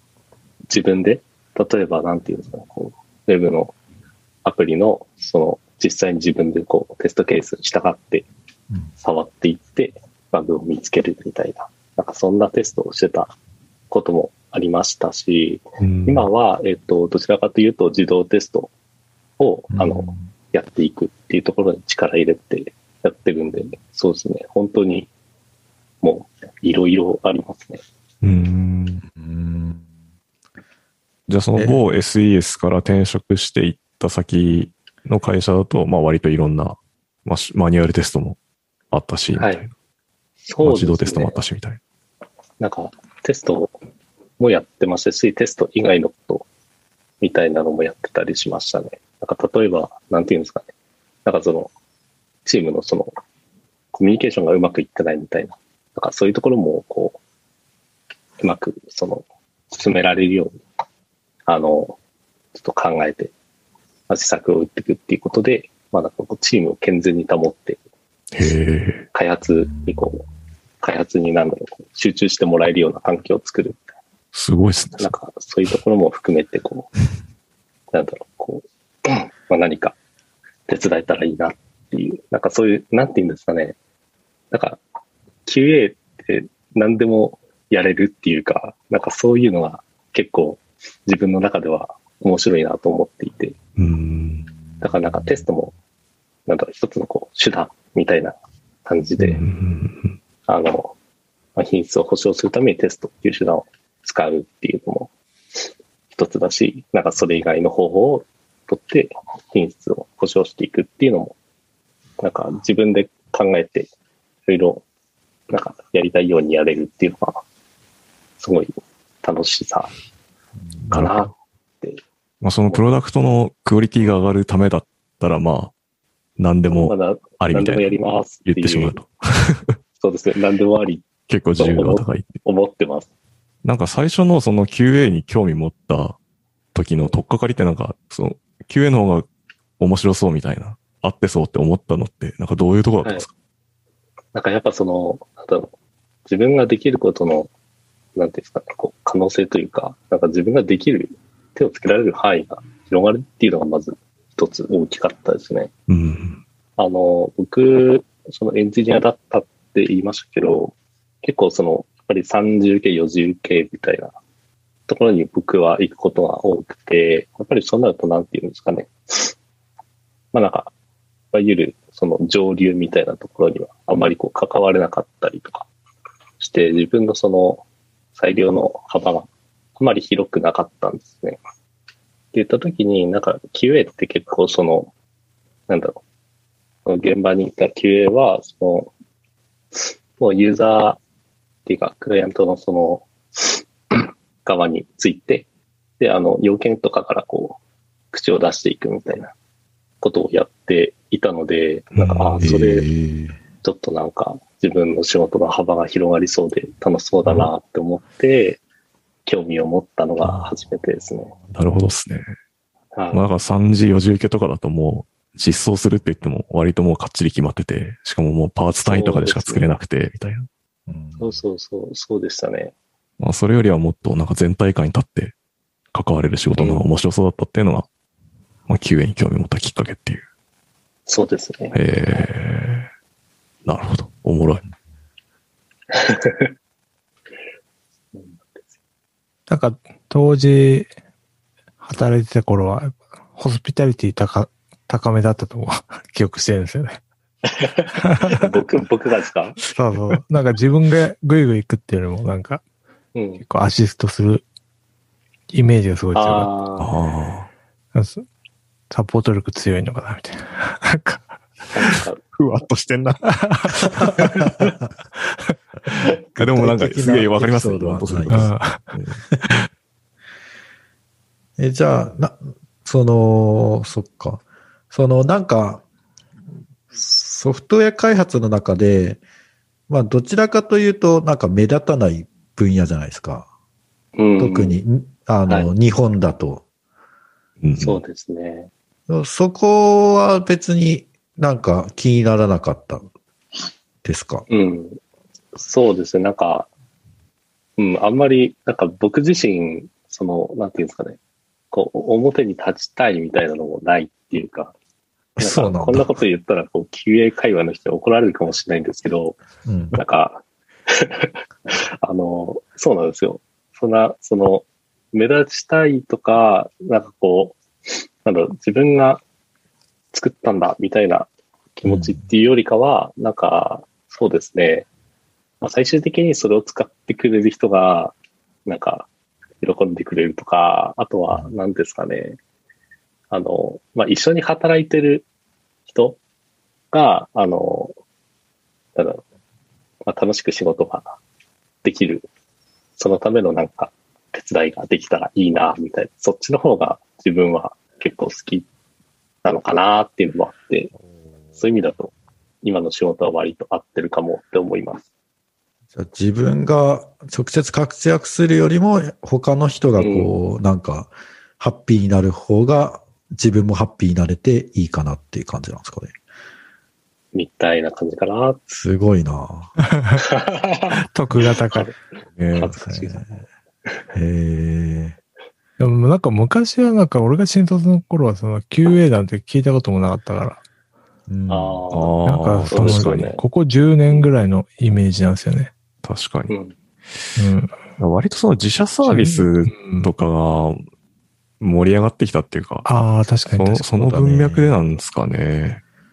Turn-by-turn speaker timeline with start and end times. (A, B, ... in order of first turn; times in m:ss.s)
0:00.7-0:03.7 A
0:04.4-0:08.2 A
0:09.0-0:13.3 A
0:13.9-0:18.7 A
0:15.8-0:16.3 B
0:19.4-0:25.1 A
0:19.7-0:20.2 C
0:26.0-0:27.8 A
0:28.2-0:29.0 B
0:29.0-0:29.8 C
0:31.3-0:38.4 B
0:38.9-0:39.7 B
0:39.3-0:39.6 A
0:40.4-0:41.4 A
0:40.6-0:41.8 B
0:42.6-0:43.8 A
0:44.4-0:46.4 A
0:47.2-0:50.7 A
0:51.2-0:51.7 A
0:52.4-0:53.1 A
0:53.9-0:57.2 A
0:58.4-1:00.5 A
1:01.5-1:02.0 A
1:02.5-1:03.3 A
1:04.1-1:07.8 A
1:08.3-1:09.0 B
1:09.1-1:10.2 A
1:09.7-1:10.0 C
1:10.8-1:13.8 A
1:14.3-1:15.1 B
1:15.0-1:16.9 A
1:17.9-1:20.0 A
1:20.7-1:23.8 A
1:24.5-1:24.8 A
1:25.4-1:33.5 A
1:33.8-1:34.5 B
1:34.8-1:35.4 C
1:34.8-1:35.7 A
1:36.5-1:38.3 A
1:38.8-1:39.4 A
1:39.2-1:40.2 B
1:40.5-1:40.9 A
1:41.6-1:45.1 A
1:46.1-1:51.3 A
1:52.2-1:53.9 A
1:54.5-1:54.8 A
1:55.5-1:57.4 A
1:58.4-1:59.9 A
2:00.6-2:00.9 C
2:00.8-2:01.3 B
2:00.9-2:02.0 A
2:02.4-2:05.7 B
2:06.4-2:09.8 B
2:06.6-2:09.0 A
2:10.0-2:11.0 A
2:11.3-2:12.4 B
2:11.6-2:13.1 A
2:13.6-2:16.2 B
2:16.7-2:19.3 B
2:19.8-2:23.3 B
2:23.0-2:23.2 A
2:24.3-2:25.7 A
2:26.3-2:27.5 A
2:28.2-2:35.7 A
2:35.9-2:36.4 B
2:36.8-2:44.1 A
2:44.9-2:49.3 A
2:50.3-2:50.7 A
2:51.3-2:55.6 A
2:56.4-2:57.6 A
2:58.2-3:01.4 A
3:02.3-3:04.9 A
3:05.7-3:06.0 A
3:06.8-3:08.9 A
3:09.7-3:11.0 A
3:11.6-3:15.5 A
3:16.0-3:17.6 A
3:18.1-3:19.3 A
3:20.0-3:22.9 A
3:21.9-3:22.5 B
3:22.4-3:23.4 C
3:23.6-3:28.6 A
3:29.2-3:31.3 A
3:30.2-3:30.5 B
3:31.5-3:32.3 B
3:32.9-3:33.2 A
3:33.1-3:40.5 B
3:38.8-3:39.7 A
3:40.9-3:41.4 C
3:41.2-3:42.7 A
3:43.2-3:45.3 B
3:45.9-3:47.8 B
3:46.6-3:46.8 A
3:48.7-3:50.2 B
3:51.1-3:52.3 A
3:51.7-3:52.9 B
3:53.6-3:54.6 B
3:55.9-3:56.5 A
3:58.1-3:58.6 A
3:59.5-4:00.9 D
4:01.8-4:07.0 D
4:07.4-4:09.6 A
4:08.0-4:08.5 D
4:09.7-4:12.6 D
4:13.1-4:13.4 A
4:13.4-4:14.4 D
4:15.5-4:16.5 D
4:16.1-4:16.9 A
4:16.8-4:17.5 B
4:17.9-4:18.2 D
4:18.9-4:21.4 D
4:21.7-4:22.2 A
4:22.3-4:24.3 B
4:23.4-4:24.5 D
4:24.2-4:24.5 A
4:26.4-4:28.5 C
4:26.4-4:29.5 B
4:28.3-4:29.0 D
4:31.6-4:35.8 C
4:36.9-4:39.2 C
4:39.9-4:43.5 C
4:44.2-4:44.8 A
4:44.4-4:46.6 C
4:47.6-4:48.0 B
4:47.8-4:48.7 A
4:49.1-4:53.1 C
4:54.0-4:54.5 C
4:54.5-4:55.0 A
4:55.5-4:56.7 A
4:57.8-5:01.2 A
5:01.7-5:04.7 A
5:05.4-5:09.4 A
5:05.4-5:06.1 C
5:09.6-5:10.0 C
5:09.9-5:17.6 A
5:18.2-5:19.2 A
5:20.1-5:24.9 A
5:21.8-5:22.2 C
5:25.6-5:28.1 A
5:28.6-5:29.1 A
5:29.6-5:32.4 A
5:33.3-5:35.2 A
5:35.9-5:36.2 A
5:36.9-5:37.9 A
5:39.0-5:39.2 A
5:40.0-5:41.2 A
5:41.8-5:42.3 A
5:43.0-5:48.7 A
5:49.4-5:50.9 A
5:51.6-5:55.0 A
5:55.9-6:06.1 C
6:00.0-6:00.3 A
6:07.3-6:08.6 A
6:08.7-6:09.7 C
6:10.2-6:11.0 A
6:11.0-6:11.9 D
6:11.5-6:12.0 A
6:12.4-6:12.8 B
6:12.6-6:13.2 A
6:12.8-6:13.4 C
6:14.1-6:15.2 C
6:15.8-6:20.6 D
6:21.3-6:21.8 C
6:21.5-6:23.4 A
6:21.9-6:23.3 B
6:22.2-6:25.7 D
6:26.0-6:26.5 B
6:26.5-6:26.7 A
6:27.4-6:27.8 D
6:28.0-6:30.8 B
6:29.0-6:30.1 D
6:31.6-6:32.9 B
6:32.8-6:34.5 D
6:33.5-6:35.8 B
6:34.2-6:34.8 C